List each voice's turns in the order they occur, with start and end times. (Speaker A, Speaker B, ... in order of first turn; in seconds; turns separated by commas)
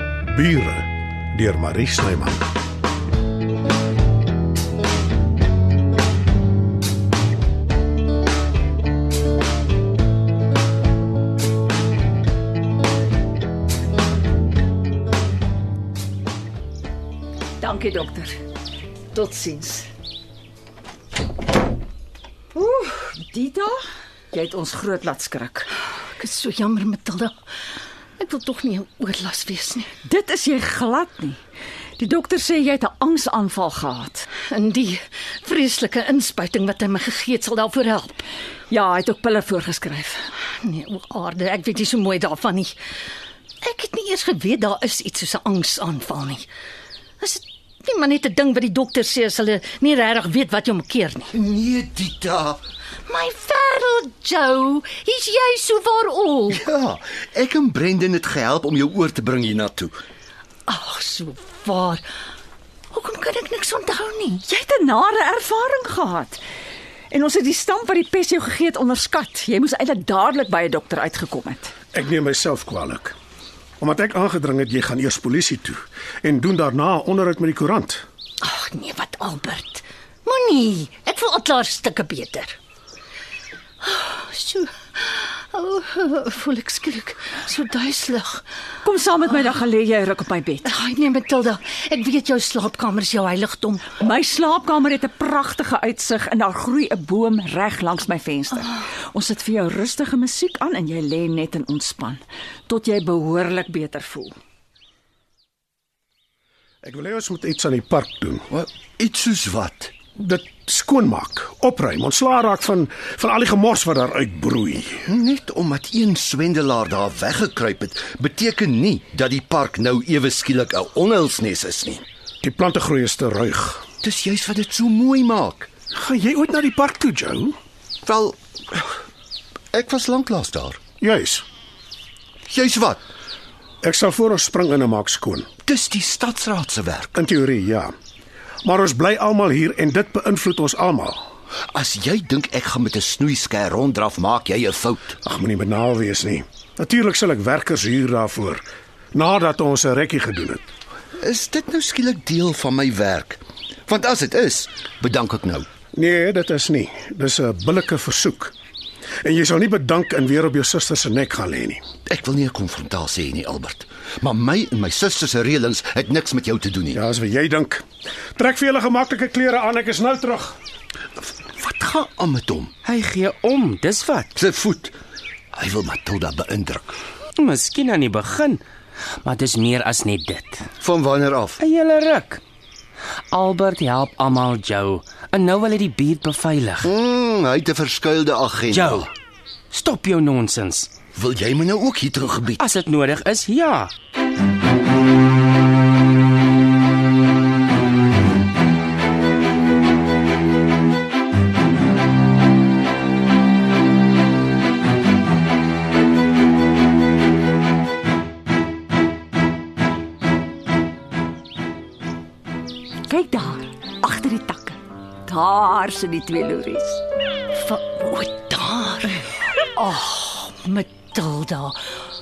Speaker A: 0.3-2.5, Speaker B: 17.6-18.4, Speaker B: 19.1-19.9, Speaker B: 22.5-23.8, Speaker B: 24.3-25.7, Speaker C: 25.9-27.4, Speaker C: 28.2-29.9, Speaker B: 30.1-31.4, Speaker B: 32.0-34.3, Speaker C: 34.4-38.2, Speaker B: 38.7-40.3, Speaker C: 40.5-42.8, Speaker C: 43.6-46.5, Speaker C: 47.2-51.3, Speaker D: 51.3-52.6, Speaker C: 53.1-56.6, Speaker D: 56.5-59.9, Speaker C: 60.7-62.0, Speaker C: 62.9-64.4, Speaker B: 64.4-66.4, Speaker B: 67.1-71.7, Speaker A: 71.9-73.2, Speaker A: 73.8-78.0, Speaker C: 78.4-82.5, Speaker C: 83.8-88.4, Speaker B: 88.8-90.7, Speaker C: 90.7-93.9, Speaker B: 93.9-104.4, Speaker A: 106.8-108.5, Speaker D: 108.5-109.9, Speaker A: 110.2-115.1, Speaker D: 115.1-122.0, Speaker A: 122.4-123.8, Speaker D: 124.0-125.7, Speaker A: 125.9-127.5, Speaker D: 128.1-129.0, Speaker D: 129.7-130.8, Speaker A: 131.0-131.4, Speaker D: 132.5-133.0, Speaker A: 133.8-135.5, Speaker D: 135.7-137.2, Speaker A: 137.2-137.9, Speaker A: 138.6-141.2, Speaker D: 141.7-145.2, Speaker A: 145.2-150.6, Speaker D: 151.2-155.7, Speaker A: 155.9-158.5, Speaker A: 159.2-161.8, Speaker D: 162.1-167.0, Speaker A: 166.9-167.8, Speaker A: 168.4-170.6, Speaker D: 171.4-172.7, Speaker E: 172.8-174.4, Speaker D: 174.4-174.9, Speaker D: 175.5-176.9, Speaker E: 177.4-178.6, Speaker E: 179.2-180.7, Speaker D: 180.8-181.6, Speaker E: 181.6-182.4, Speaker E: 183.3-186.9, Speaker D: 186.8-189.1, Speaker E: 188.7-189.1, Speaker E: 189.7-190.9, Speaker D: 191.2-192.6, Speaker E: 192.6-193.9, Speaker B: 213.1-217.0, Speaker C: 217.5-219.2, Speaker C: 219.7-221.8